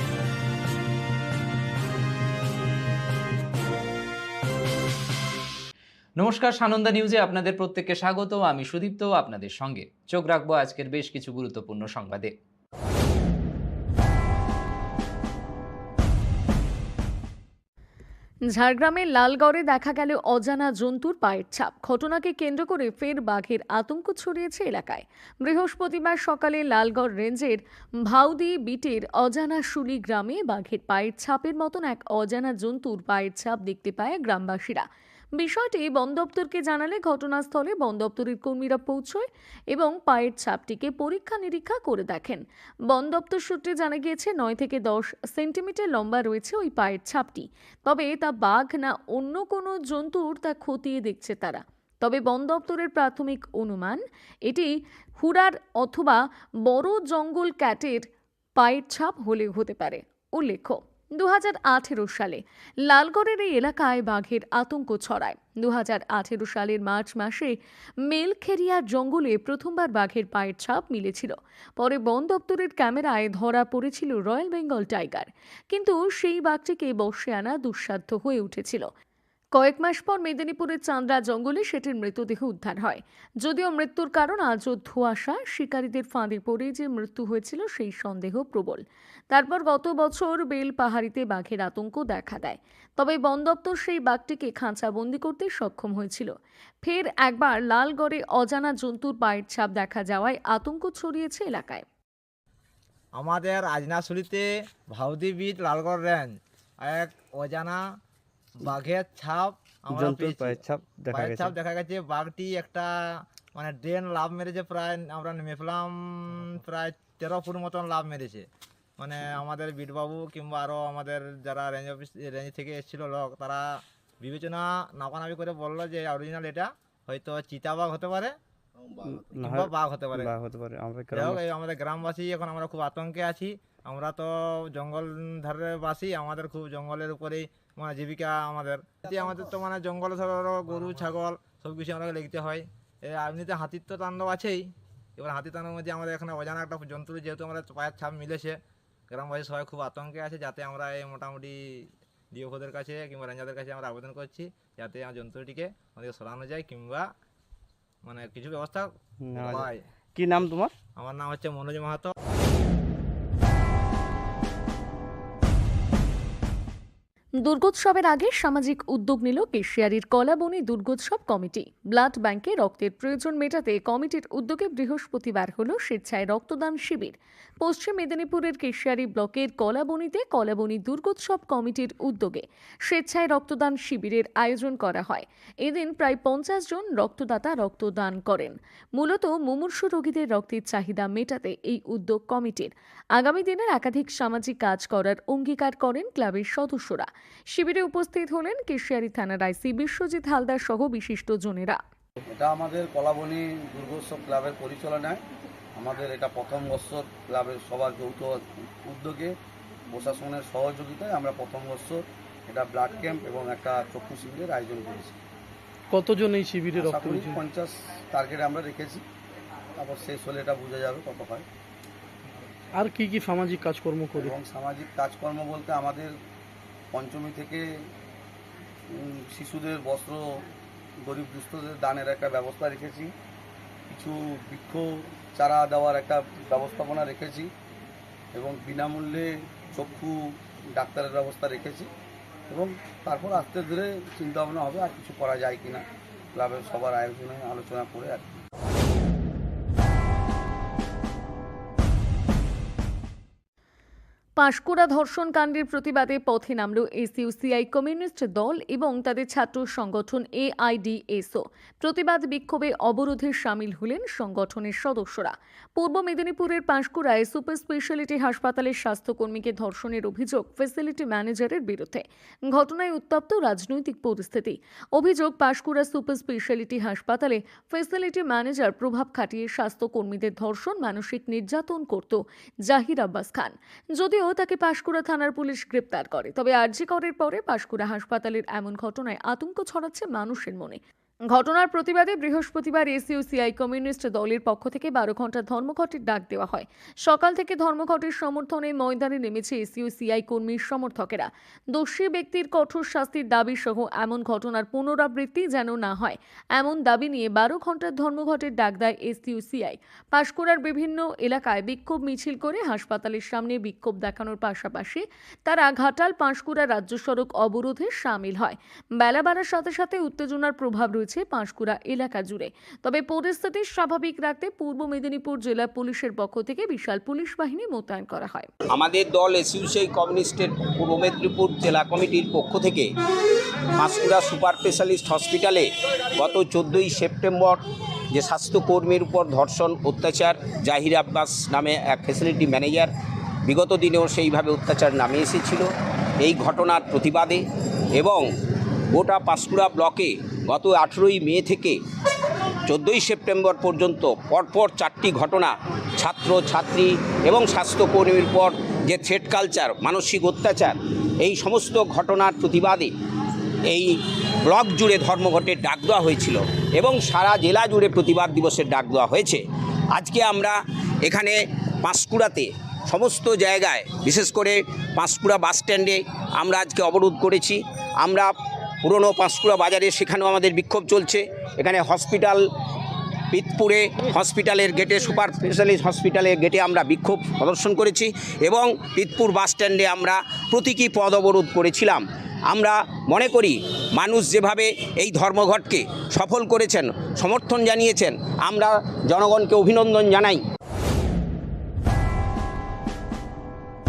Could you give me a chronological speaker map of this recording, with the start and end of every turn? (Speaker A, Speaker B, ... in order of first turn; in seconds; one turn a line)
Speaker A: 6.2-12.3
Speaker B: 18.5-34.9
Speaker B: 35.4-78.9
Speaker B: 79.5-96.3
Speaker B: 96.8-101.8
Speaker C: 103.1-107.8
Speaker C: 108.6-112.9
Speaker D: 109.9-111.5
Speaker C: 113.5-118.5
Speaker C: 119.0-128.3
Speaker D: 129.1-131.4
Speaker C: 129.4-130.3
Speaker C: 131.1-144.7
Speaker C: 145.2-148.6
Speaker C: 149.1-151.6
Speaker C: 152.3-157.1
Speaker C: 158.0-159.8
Speaker D: 159.2-160.7
Speaker C: 161.0-162.1
Speaker B: 167.4-201.8
Speaker E: 202.3-205.2
Speaker E: 205.8-209.3
Speaker E: 209.9-215.2
Speaker F: 215.9-217.4
Speaker E: 216.7-219.0
Speaker E: 219.8-221.4
Speaker F: 222.8-224.3
Speaker E: 224.1-226.1
Speaker E: 226.9-227.6
Speaker E: 228.9-230.4
Speaker E: 231.0-233.1
Speaker E: 233.9-237.5
Speaker E: 238.3-241.9
Speaker E: 242.5-245.8
Speaker E: 246.3-248.4
Speaker B: 254.4-328.5
Speaker G: 328.7-332.9
Speaker G: 333.7-337.6
Speaker G: 338.1-342.9
Speaker G: 343.5-345.7
Speaker G: 346.2-347.4
Speaker G: 348.0-348.2
Speaker G: 348.9-351.8
Speaker G: 352.7-362.9
Speaker G: 364.5-369.4
Speaker G: 369.9-378.3
Speaker G: 378.8-382.4
Speaker G: 383.3-400.4